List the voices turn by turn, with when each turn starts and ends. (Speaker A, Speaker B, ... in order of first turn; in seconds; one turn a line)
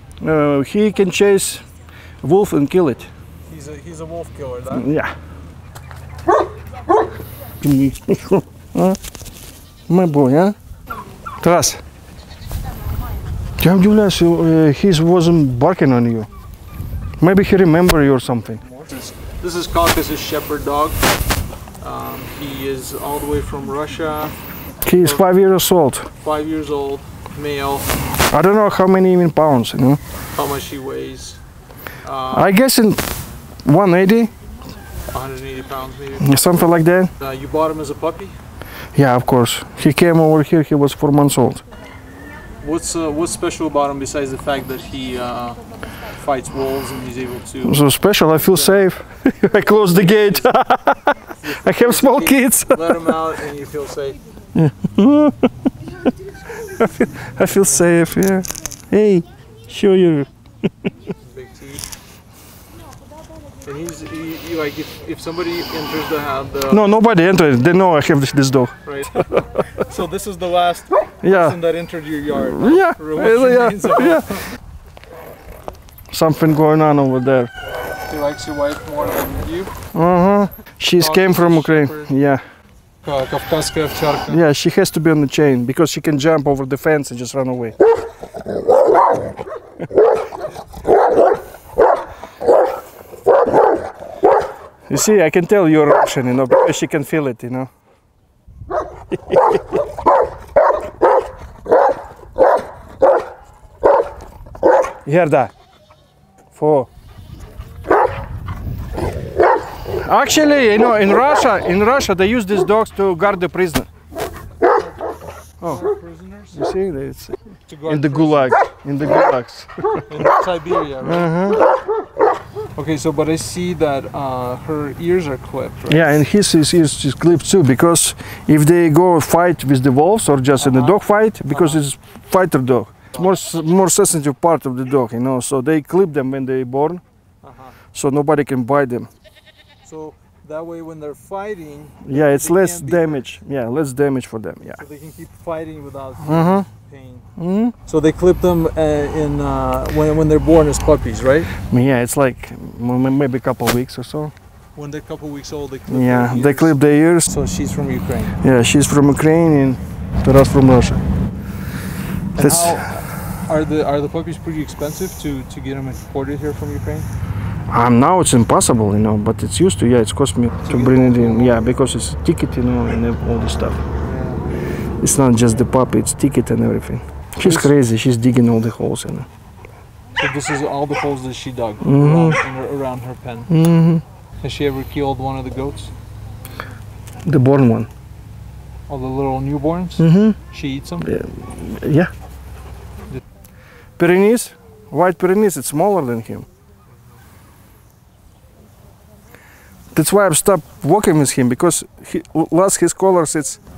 Speaker A: 0.2-1.6
Speaker A: 2.2-3.1
Speaker B: 3.5-4.9
Speaker A: 4.7-5.1
Speaker A: 7.6-9.0
Speaker A: 9.9-10.6
Speaker A: 11.4-11.8
Speaker A: 13.6-16.3
Speaker A: 17.2-18.6
Speaker B: 18.6-21.0
Speaker B: 21.8-24.3
Speaker A: 24.9-26.1
Speaker B: 24.9-25.3
Speaker B: 26.1-27.9
Speaker A: 28.3-30.0
Speaker B: 30.3-31.4
Speaker B: 32.0-32.5
Speaker A: 32.3-33.0
Speaker A: 33.6-34.3
Speaker B: 35.1-36.3
Speaker A: 36.2-37.1
Speaker B: 37.2-38.3
Speaker A: 39.0-41.6
Speaker B: 42.6-47.8
Speaker A: 47.6-53.2
Speaker B: 48.5-48.9
Speaker B: 49.8-50.5
Speaker B: 51.4-54.2
Speaker A: 54.5-55.5
Speaker A: 56.6-60.3
Speaker B: 61.2-61.9
Speaker B: 63.6-66.9
Speaker A: 66.7-69.4
Speaker B: 68.8-74.4
Speaker A: 71.2-71.6
Speaker A: 72.3-74.4
Speaker A: 76.1-77.5
Speaker B: 78.1-79.8
Speaker A: 79.9-82.4
Speaker B: 81.0-82.1
Speaker B: 83.0-84.4
Speaker A: 84.3-87.8
Speaker A: 94.9-97.7
Speaker A: 99.1-99.6
Speaker A: 105.0-105.5
Speaker A: 106.5-106.9
Speaker A: 109.9-113.9
Speaker A: 115.6-115.9
Speaker B: 115.6-116.6
Speaker A: 116.5-120.0
Speaker B: 117.7-118.5
Speaker B: 120.1-121.3
Speaker A: 121.0-121.6
Speaker B: 122.7-126.2
Speaker A: 125.9-137.0
Speaker B: 130.6-131.0
Speaker B: 131.5-131.8
Speaker B: 137.4-137.8
Speaker A: 137.9-139.1
Speaker B: 139.8-143.3
Speaker A: 142.0-144.8
Speaker B: 144.8-147.3
Speaker A: 146.2-146.7
Speaker A: 147.4-147.8
Speaker B: 147.8-151.5
Speaker A: 151.6-154.3
Speaker B: 154.7-158.4
Speaker A: 155.9-157.3
Speaker A: 158.4-161.0
Speaker B: 162.3-167.1
Speaker A: 162.4-162.9
Speaker A: 167.7-173.8
Speaker B: 170.6-171.7
Speaker B: 174.0-174.4
Speaker A: 175.0-179.3
Speaker B: 177.4-177.8
Speaker B: 180.2-183.5
Speaker A: 181.8-182.4
Speaker A: 183.5-184.0
Speaker B: 184.4-185.9
Speaker A: 187.2-187.9
Speaker B: 188.9-191.1
Speaker A: 190.0-190.4
Speaker A: 191.0-192.1
Speaker A: 194.0-196.4
Speaker B: 196.9-197.2
Speaker A: 199.9-203.6